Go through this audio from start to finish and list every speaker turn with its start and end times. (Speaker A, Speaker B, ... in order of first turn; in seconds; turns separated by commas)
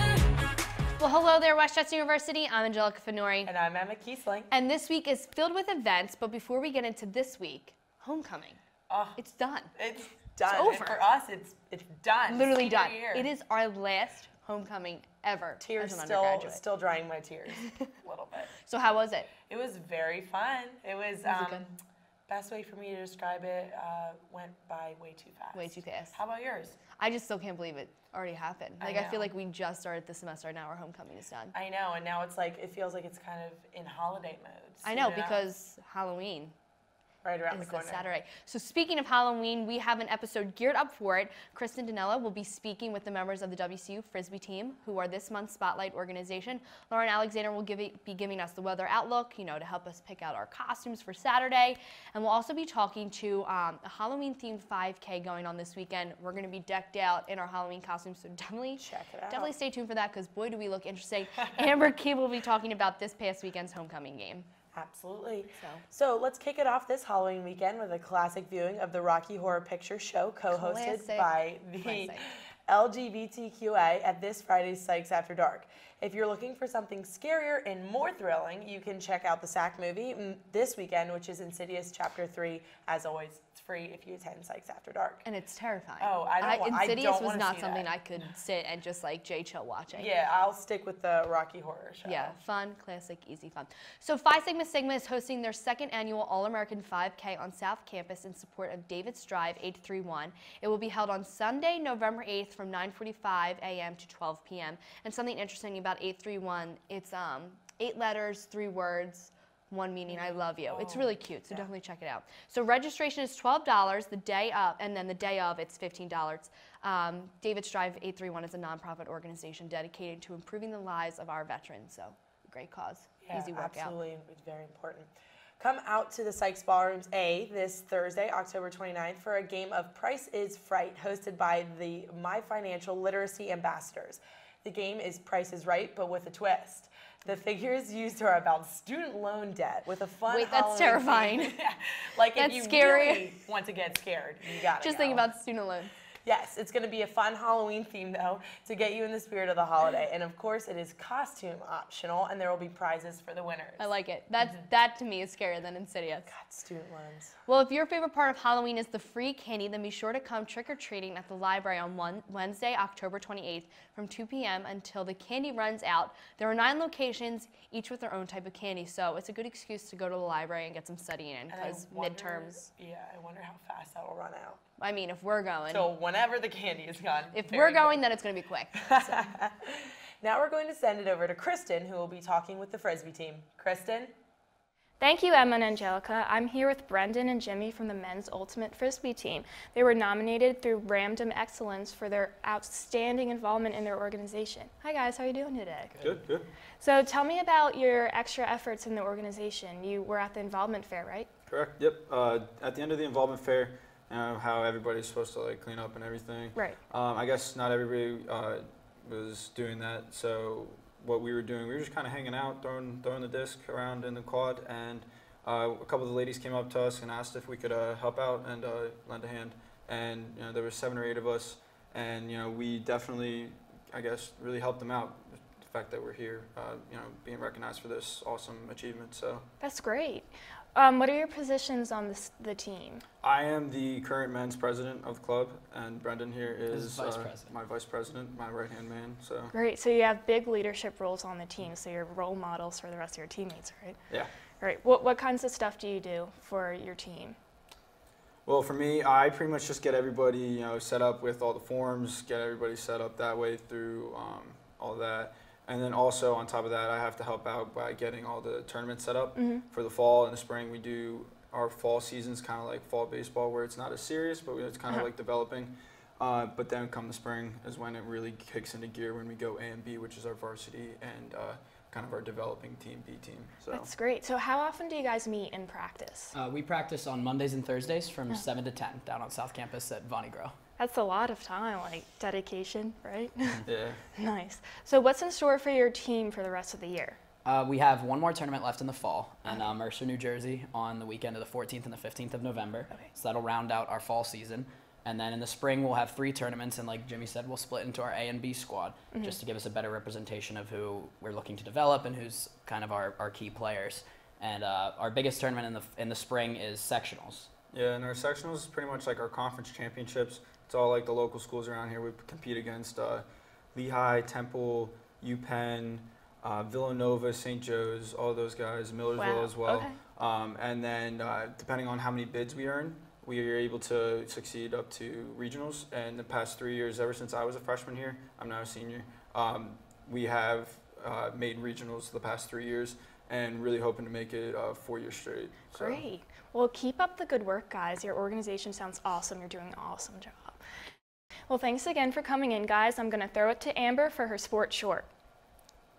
Speaker A: 1.0-3.5, Speaker B: 3.4-4.5, Speaker A: 4.5-8.6, Speaker B: 8.9-9.2, Speaker A: 9.2-9.7, Speaker B: 9.8-13.3, Speaker A: 10.4-11.0, Speaker A: 12.2-16.6, Speaker B: 15.6-18.5, Speaker A: 18.6-19.3, Speaker B: 19.5-21.8, Speaker A: 21.2-21.7, Speaker B: 22.3-26.8, Speaker A: 25.5-26.2, Speaker A: 27.0-31.5, Speaker B: 28.8-29.3, Speaker B: 31.5-35.4, Speaker A: 34.8-36.5, Speaker B: 37.2-38.0, Speaker A: 37.5-64.5, Speaker B: 58.8-59.5, Speaker B: 64.7-72.2, Speaker A: 65.5-65.8, Speaker A: 70.5-72.2, Speaker B: 72.7-85.2, Speaker A: 85.2-90.1, Speaker B: 86.0-87.9, Speaker B: 89.9-92.3, Speaker A: 92.0-124.0, Speaker B: 110.8-111.0, Speaker B: 123.2-145.3, Speaker A: 140.3-141.6, Speaker A: 142.3-143.3, Speaker A: 144.8-145.9, Speaker B: 146.2-153.9, Speaker A: 153.8-156.3, Speaker B: 156.3-157.3, Speaker A: 157.4-172.6, Speaker B: 171.5-174.6, Speaker A: 174.8-175.9, Speaker B: 175.7-178.0, Speaker A: 177.3-179.2, Speaker B: 178.9-184.1, Speaker C: 185.0-196.0, Speaker D: 196.0-196.5, Speaker C: 196.8-201.3, Speaker D: 201.5-229.4, Speaker C: 229.6-233.0, Speaker D: 233.2-239.5, Speaker E: 236.7-237.5, Speaker C: 239.5-244.0, Speaker C: 244.6-247.4, Speaker D: 248.4-273.9, Speaker C: 259.3-259.6, Speaker C: 273.7-276.4, Speaker E: 276.3-280.6, Speaker C: 280.8-283.6, Speaker D: 283.6-284.0, Speaker C: 284.1-287.2, Speaker E: 287.4-307.5, Speaker C: 289.4-289.8, Speaker C: 299.1-299.4, Speaker D: 307.7-336.1, Speaker C: 319.1-320.0, Speaker C: 335.8-340.6, Speaker C: 341.5-345.1